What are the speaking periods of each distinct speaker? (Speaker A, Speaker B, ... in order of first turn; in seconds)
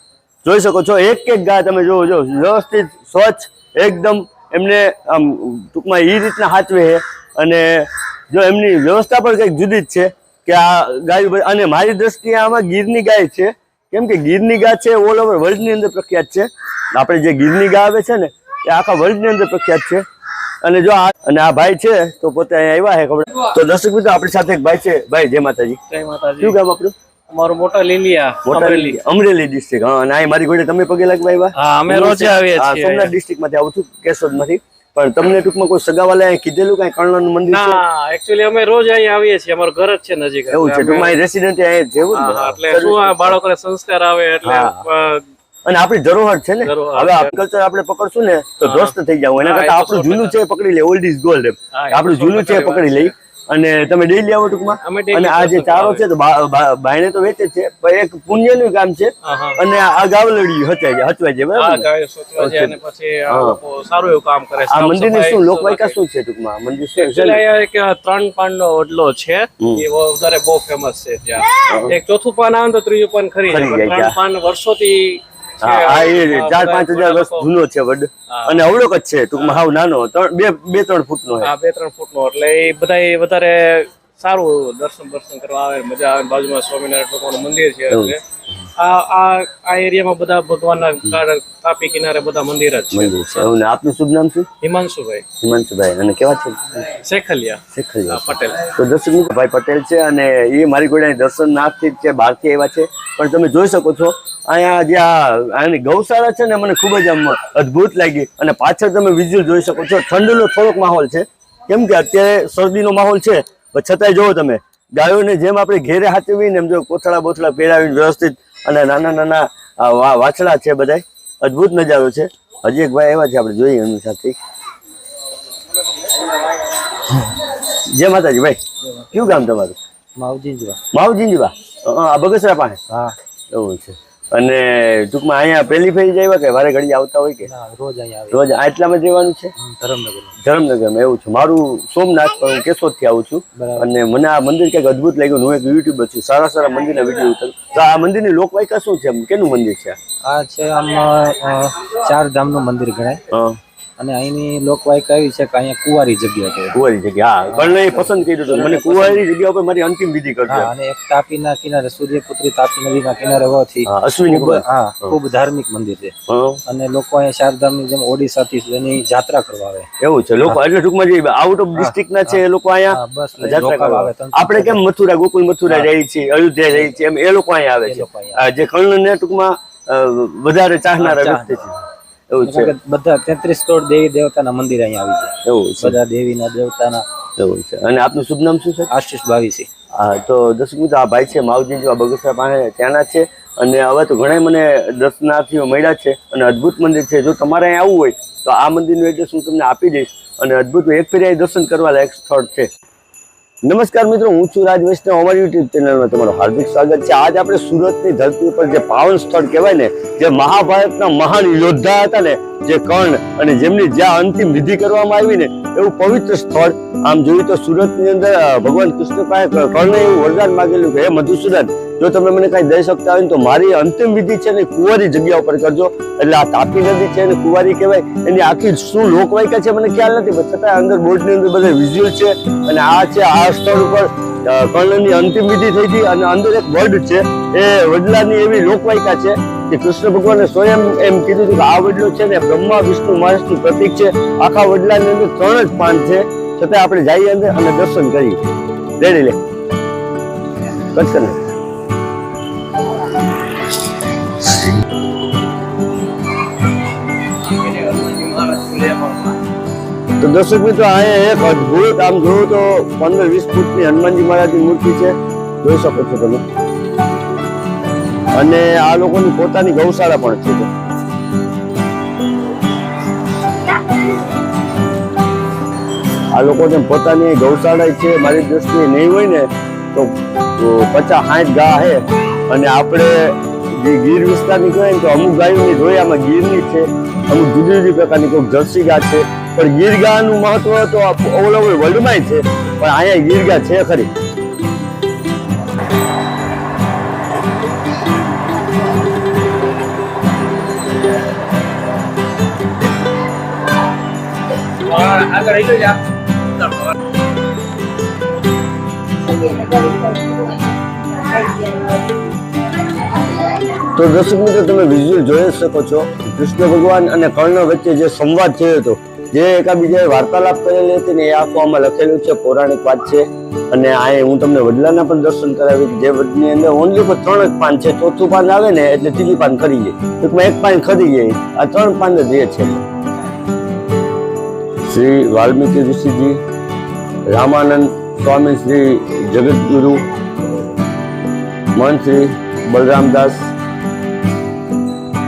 Speaker A: 0.4-20.0, 20.6-25.8, 26.4-26.9, 28.4-37.8, 40.5-43.4, 44.4-44.8, 45.7-61.9, 62.4-62.8, 63.3-63.6, 64.7-67.4, 69.6-69.8, 71.6-72.0, 73.5-74.2, 75.6-81.5, 87.9-88.2, 92.9-94.5, 95.4-96.9, 97.7-124.4, 127.1-129.8, 130.9-132.8, 133.5-137.5, 138.3-139.5, 140.4-150.0, 153.3-153.6, 156.7-160.7, 163.8-165.2, 166.3-166.6, 170.0-181.7, 182.3-182.7, 185.4-186.0, 187.4-188.9, 190.0-202.7, 203.7-248.4, 249.0-249.4, 250.7-251.4, 260.2-266.4, 268.4-270.7, 276.3-294.1, 313.7-332.9, 334.9-336.4, 337.3-340.0, 341.8-343.5
Speaker B: 25.9-26.6, 27.3-29.0, 31.6-33.1, 37.5-41.2, 42.1-45.2, 46.6-47.3, 48.6-50.4, 51.8-53.1, 54.8-56.1, 59.2-59.6, 61.5-66.0, 67.0-77.5, 78.3-78.6, 79.4-79.6, 81.4-88.2, 88.8-93.5, 94.6-95.2, 96.9-98.6, 257.6-259.1, 304.9-306.0
Speaker C: 130.2-130.8, 132.9-133.2, 137.4-138.4, 139.6-140.3, 143.6-143.9, 150.3-153.2, 154.0-156.8, 157.5-159.2, 160.5-166.1, 166.7-169.9, 171.8-172.4, 172.9-174.8, 177.8-178.4, 181.0-181.7, 182.4-187.1, 188.9-189.7